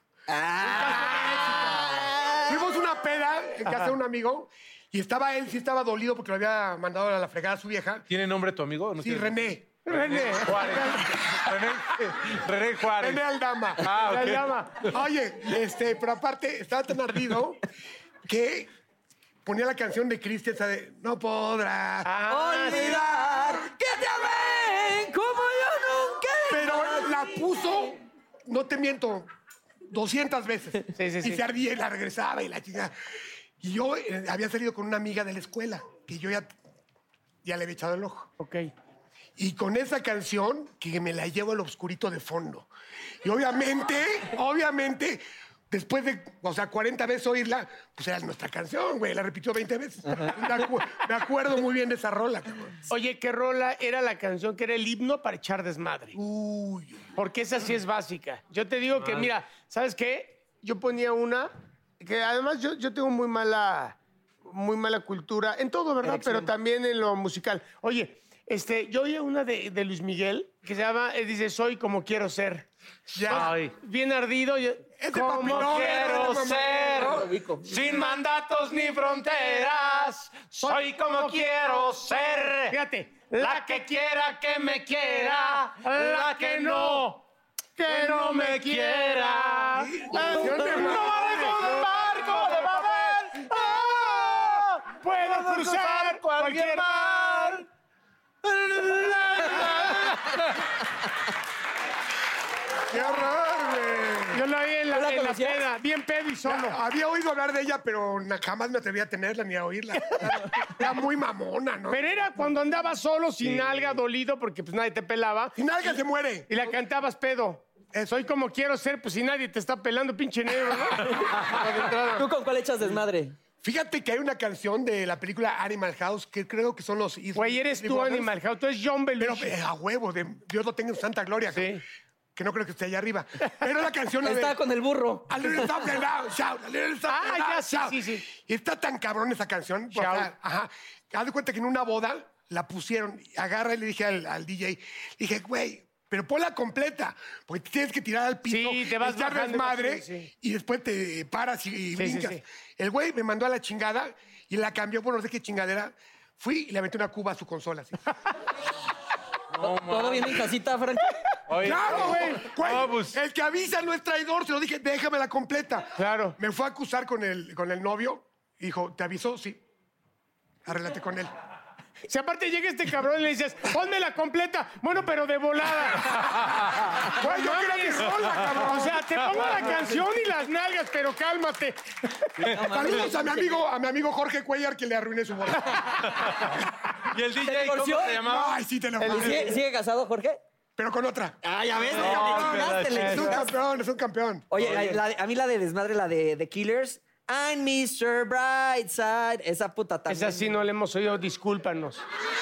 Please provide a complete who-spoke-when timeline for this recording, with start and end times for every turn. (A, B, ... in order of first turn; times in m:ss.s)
0:00.3-0:02.7 A
0:00.6-0:08.1 B
0:08.1-0:13.2 C
0:09.0-0:09.8 B
0:09.8-0:11.1 D
0:10.5-0:11.7 B
0:12.9-0:13.9 B
0:13.8-0:14.6 C
0:13.9-0:14.9 D
0:14.8-0:17.6 B
0:18.3-0:18.7 B
0:19.4-0:22.1 B
0:22.0-0:23.0 D
0:22.3-0:27.3 A
0:22.7-0:23.6 B
0:26.5-0:29.3 B
0:29.9-0:32.9 B
0:30.9-0:31.4 D
0:33.6-0:36.5 B
0:37.4-0:38.3 B
0:38.4-0:38.7 D
0:39.4-0:42.7 B
0:43.2-0:52.8 B
0:52.9-0:56.2 D
0:56.1-0:57.1 B
0:57.2-1:12.7 D
0:59.0-0:59.3 C
1:06.0-1:06.5 A
1:13.1-1:13.5 B
1:13.3-1:16.1 D
1:13.3-1:13.7 C
1:15.0-1:17.3 B
1:15.4-1:22.8 C
1:17.0-1:17.8 A
1:17.8-1:18.1 D
1:20.6-1:27.1 D
1:23.4-1:27.2 C
1:27.8-1:33.1 D
1:27.9-1:37.7 C
1:29.8-1:31.9 B
1:35.0-1:37.6 D
1:38.4-1:40.6 C
1:42.9-1:44.4 B
1:44.3-1:46.8 D
1:44.9-1:45.6 A
1:46.4-1:52.0 B
1:51.9-1:55.6 D
1:53.4-1:53.8 C
1:55.6-1:56.8 B
1:56.5-2:02.2 D
1:57.9-1:58.2 B
2:02.1-2:03.4 A
2:03.6-2:08.4 B
2:07.4-2:09.6 D
2:09.2-2:11.8 B
2:11.5-2:11.8 D
2:12.4-2:14.6 B
2:14.2-2:15.6 A
2:15.3-2:38.0 B
2:17.1-2:18.2 D
2:19.9-2:20.3 D
2:28.5-2:30.3 D
2:32.0-2:32.4 D
2:39.5-2:40.5 C
2:39.6-2:41.2 A
2:41.5-2:43.2 C
2:41.6-2:49.6 B
2:42.0-2:42.5 D
2:46.0-2:46.4 D
2:50.7-2:51.3 B
2:52.1-2:56.3 D
2:57.2-2:59.9 B
2:57.2-3:01.8 D
2:59.3-2:59.6 C
3:02.4-3:03.6 A
3:02.5-3:05.8 B
3:06.0-3:06.5 C
3:07.0-3:08.6 C
3:07.4-3:08.2 A
3:08.2-3:09.6 B
3:09.0-3:10.4 A
3:10.8-3:11.4 B
3:11.4-3:13.5 A
3:11.9-3:14.4 B
3:11.9-3:13.4 C
3:14.5-3:20.5 A
3:14.6-3:15.0 C
3:20.1-3:22.0 D